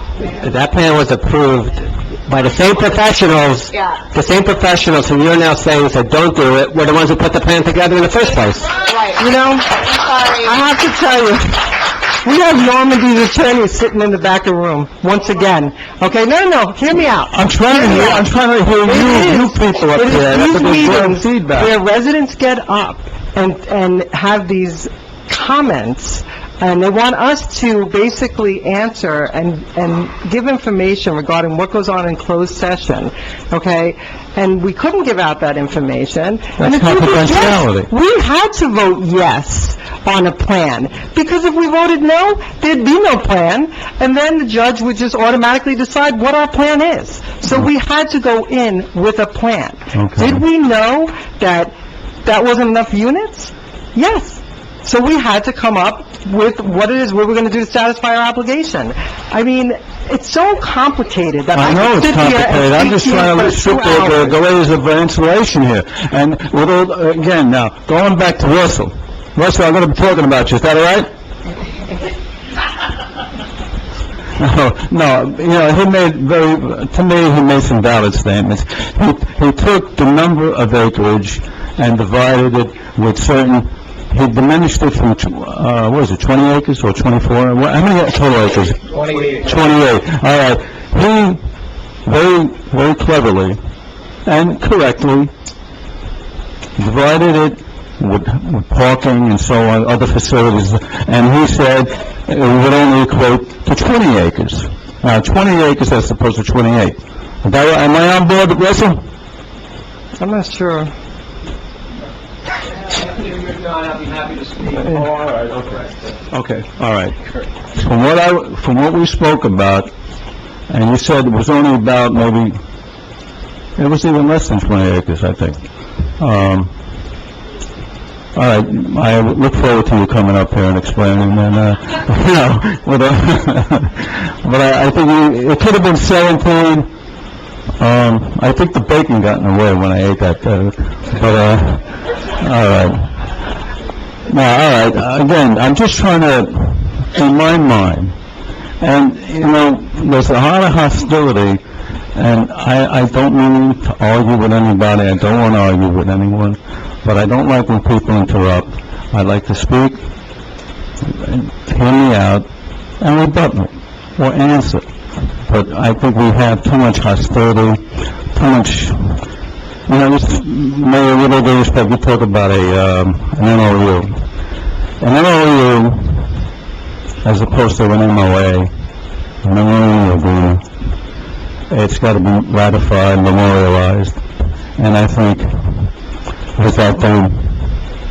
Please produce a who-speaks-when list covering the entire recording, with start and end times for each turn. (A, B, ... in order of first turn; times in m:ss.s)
0:00.3-0:08.7 A
0:03.7-0:04.0 B
0:08.8-0:10.6 B
0:09.2-0:09.8 C
0:10.4-0:18.3 C
0:17.3-0:21.7 D
0:18.8-1:04.4 C
0:36.6-0:37.9 D
0:49.9-0:50.4 D
1:01.5-1:11.1 D
1:14.4-1:31.4 D
1:32.0-1:33.6 D
1:34.2-1:35.3 D
1:36.8-1:49.0 D
1:50.2-1:50.9 C
1:53.3-1:56.0 A
1:56.3-1:57.2 D
1:57.7-1:59.9 D
2:00.7-2:02.5 D
2:03.8-2:05.6 D
2:06.2-2:06.7 D
2:08.4-2:16.9 D
2:17.8-2:21.9 D
2:22.4-2:23.1 D
2:24.3-2:28.1 D
2:28.8-2:31.6 D
2:32.2-2:40.0 D
2:41.1-2:42.4 D
2:43.0-2:44.8 D
2:45.4-2:47.8 D
2:48.3-2:49.2 D
2:49.9-2:54.2 D
2:55.0-2:56.3 D
2:57.2-2:58.7 D
2:59.4-3:00.6 D
3:01.7-3:04.2 D
3:04.8-3:05.9 D
3:06.6-3:07.7 D